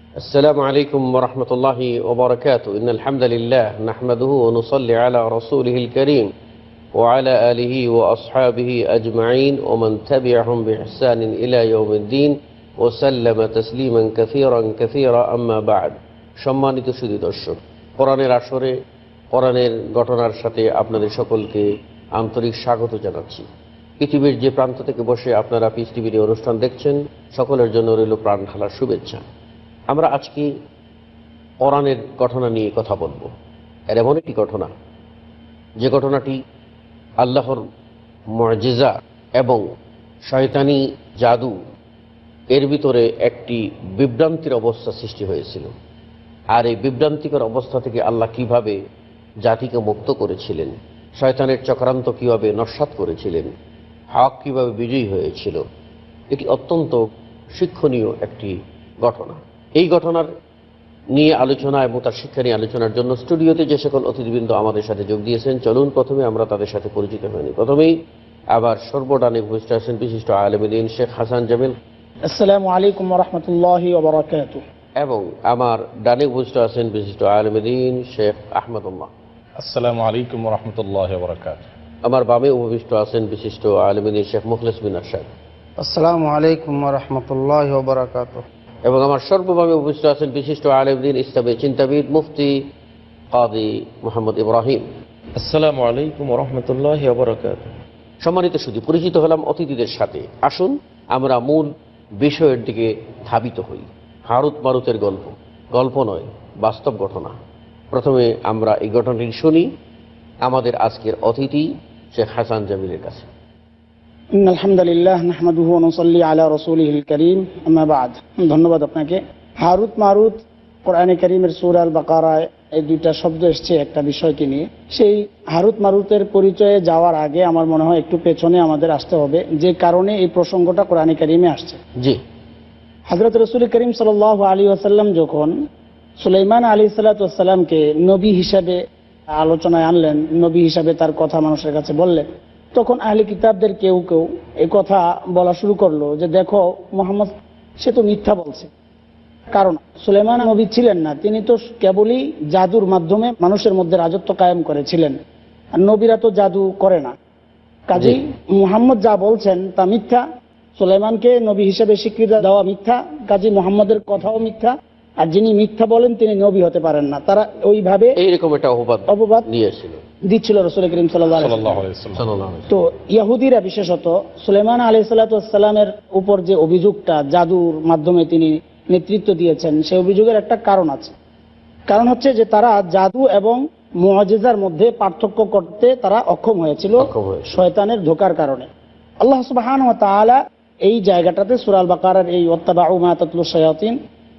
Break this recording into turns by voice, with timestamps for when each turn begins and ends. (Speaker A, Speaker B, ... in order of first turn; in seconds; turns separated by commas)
Speaker A: 0.2-6.3, Speaker A: 7.0-18.7, Speaker A: 19.3-23.5, Speaker A: 24.0-29.2, Speaker A: 29.9-30.5, Speaker A: 31.6-33.3, Speaker A: 33.9-34.7, Speaker A: 35.8-36.4, Speaker A: 37.2-37.6, Speaker A: 38.3-39.6, Speaker A: 40.3-41.6, Speaker A: 42.5-45.7, Speaker A: 46.5-48.8, Speaker A: 49.4-53.5, Speaker A: 54.1-55.6, Speaker A: 56.3-60.3, Speaker A: 61.1-68.0, Speaker A: 68.5-71.8, Speaker B: 72.3-74.6, Speaker A: 75.0-79.1, Speaker C: 79.6-81.7, Speaker A: 82.0-85.3, Speaker D: 85.8-88.4, Speaker A: 88.8-92.6, Speaker A: 93.3-94.9, Speaker E: 95.4-97.7, Speaker A: 98.2-107.3, Speaker A: 107.9-109.7, Speaker A: 110.4-113.3, Speaker B: 114.4-131.8, Speaker B: 133.1-135.5, Speaker B: 136.2-138.8, Speaker B: 139.3-148.7, Speaker B: 149.5-155.2, Speaker B: 155.8-157.1, Speaker B: 157.9-160.2, Speaker A: 157.9-158.2, Speaker B: 160.8-168.2, Speaker A: 168.2-170.0, Speaker B: 169.1-169.5, Speaker B: 170.3-171.7, Speaker C: 171.4-172.2, Speaker A: 172.1-172.7, Speaker B: 172.7-181.1, Speaker B: 181.9-188.7, Speaker A: 187.0-187.5, Speaker B: 189.2-194.0